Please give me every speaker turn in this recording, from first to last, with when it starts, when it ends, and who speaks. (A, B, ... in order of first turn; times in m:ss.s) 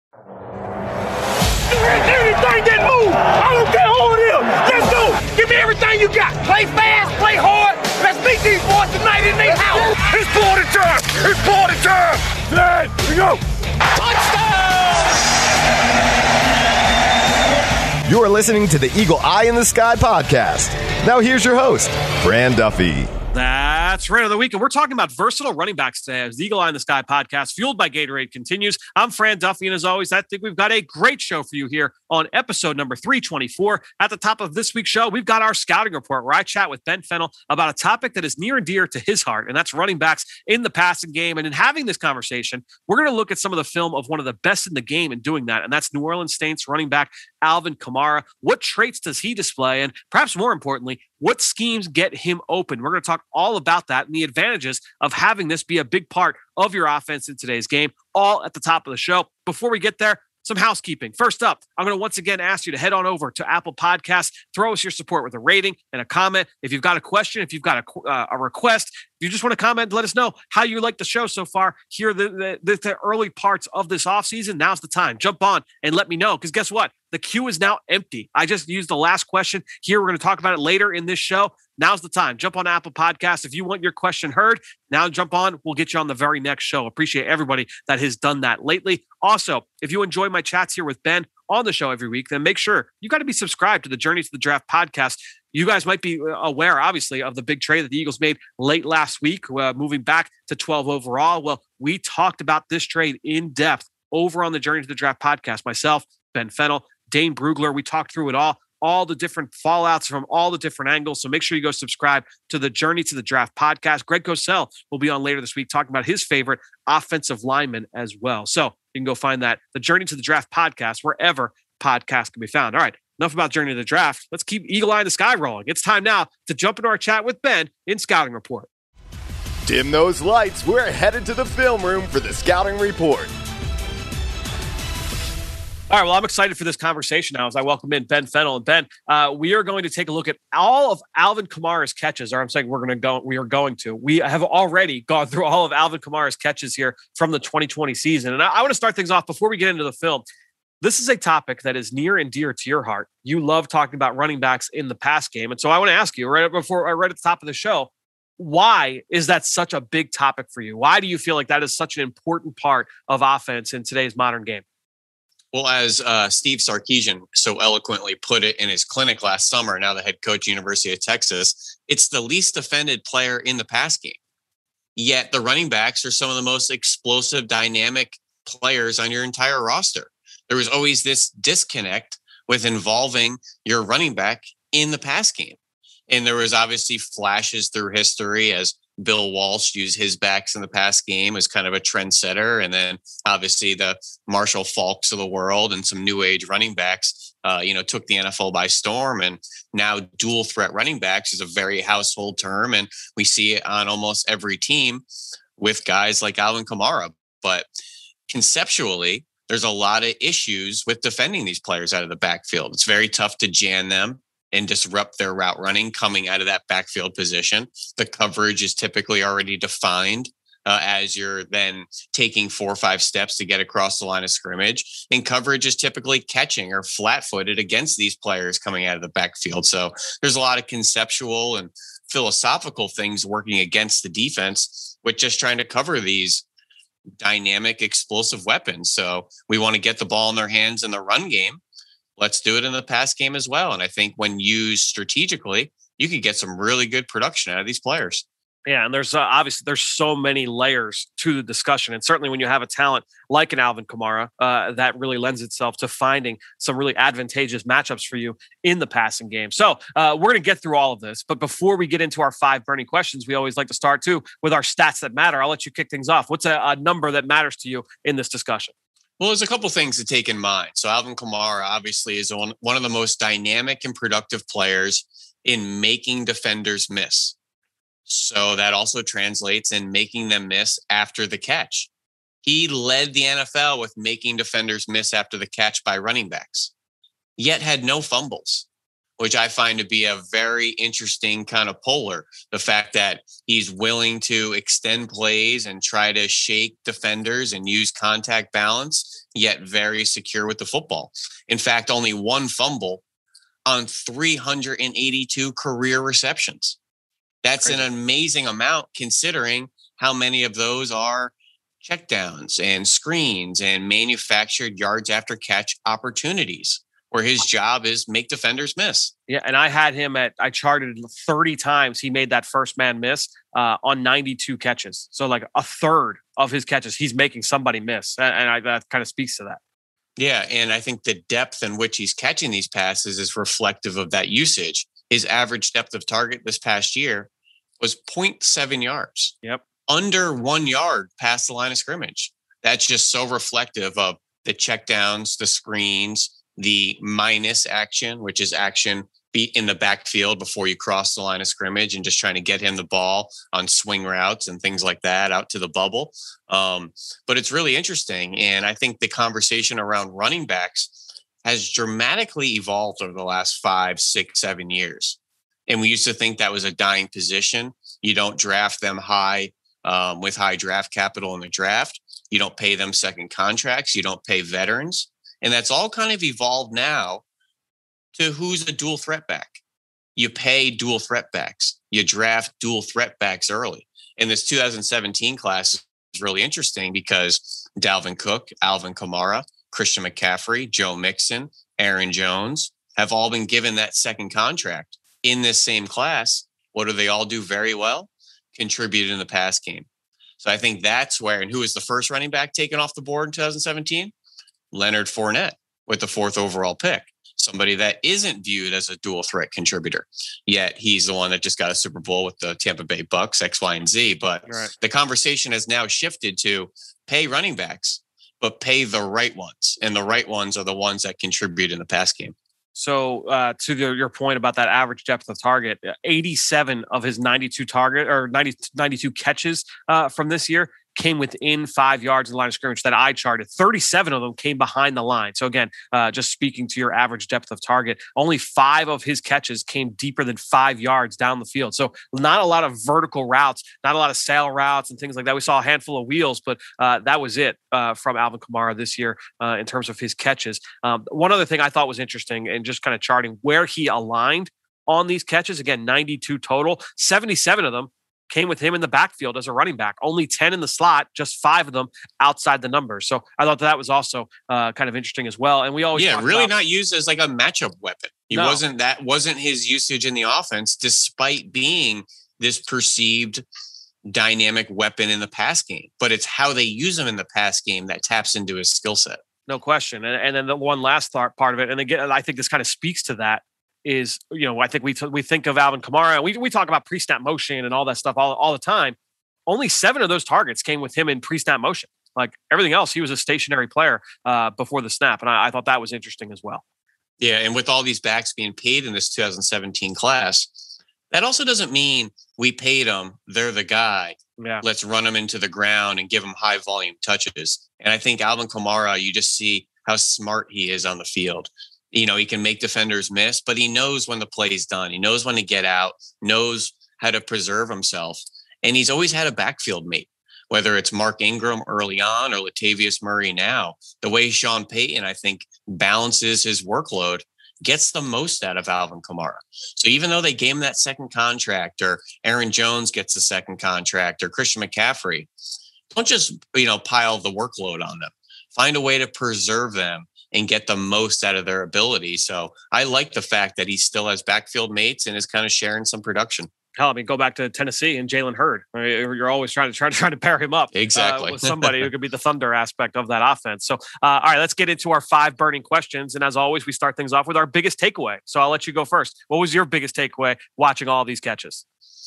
0:01.7-0:13.4 A
0:14.0-0:14.8 A
0:18.1-0:23.1 B
0:23.3-2:08.7 C
2:09.6-2:13.3 B
2:15.9-2:30.2 C
2:30.8-2:44.6 C
2:45.5-2:54.2 D
2:55.0-3:05.6 D
3:06.1-3:25.0 D
3:25.6-3:27.7 D
3:28.3-3:56.4 D
3:57.2-4:01.6 D
4:02.2-4:08.2 D
4:08.6-4:28.7 C
4:29.2-4:37.3 D
4:38.0-4:41.9 D
4:42.4-4:46.7 D
4:47.4-4:48.6 D
4:49.2-5:03.0 D
5:03.6-5:06.8 D
5:07.4-5:19.1 D
5:19.3-5:29.6 C
5:30.2-5:37.3 D
5:37.8-5:39.4 D
5:39.9-6:00.9 D
6:01.4-6:17.2 D
6:18.1-6:19.6 D
6:20.2-6:39.9 D
6:40.4-6:44.1 D
6:44.7-7:02.3 D
7:02.7-7:46.5 C
7:45.9-7:53.4 D
7:48.3-7:48.6 C
7:54.0-7:59.2 D
7:59.5-8:09.0 C
8:09.5-8:16.6 C
8:17.2-8:20.6 D
8:21.1-8:55.3 D
8:24.4-8:24.6 C
8:55.9-9:06.5 D
9:06.8-9:21.6 C
9:10.7-9:11.8 D